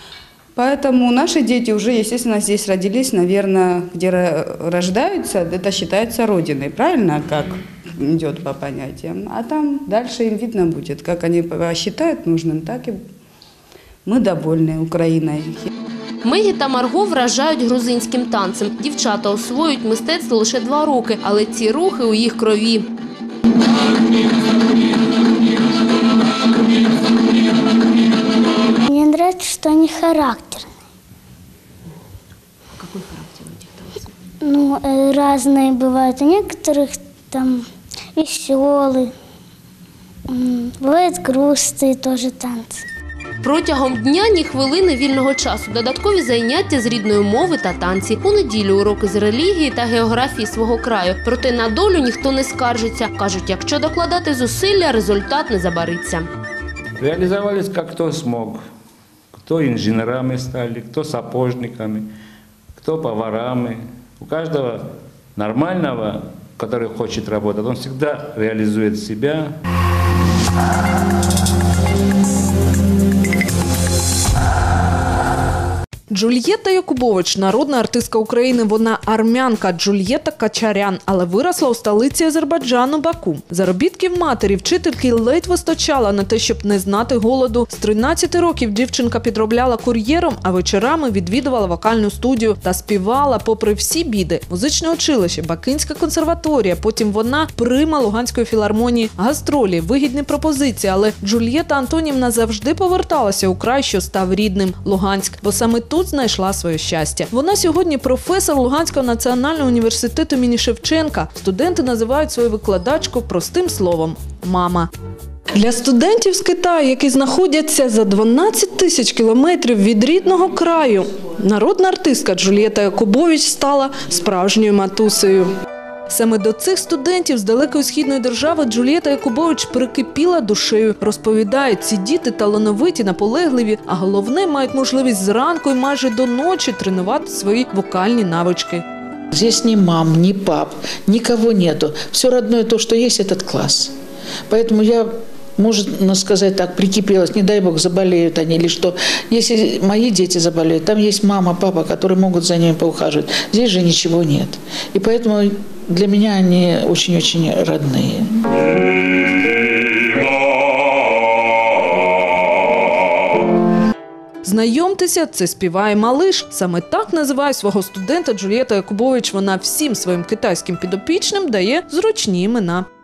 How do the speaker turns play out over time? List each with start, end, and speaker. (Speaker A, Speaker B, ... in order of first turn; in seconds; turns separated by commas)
Speaker A: 0.6-13.1, Speaker A: 14.1-15.7, Speaker B: 16.2-22.9, Speaker C: 28.9-30.7, Speaker C: 34.4-37.6, Speaker C: 38.2-39.1, Speaker C: 40.3-42.8, Speaker B: 43.4-56.3, Speaker D: 57.0-58.6, Speaker D: 59.3-62.1, Speaker D: 62.8-69.5, Speaker E: 76.1-114.9, Speaker E: 115.5-125.5, Speaker E: 126.1-138.8, Speaker F: 139.3-143.9, Speaker F: 144.5-158.3, Speaker E: 164.4-172.9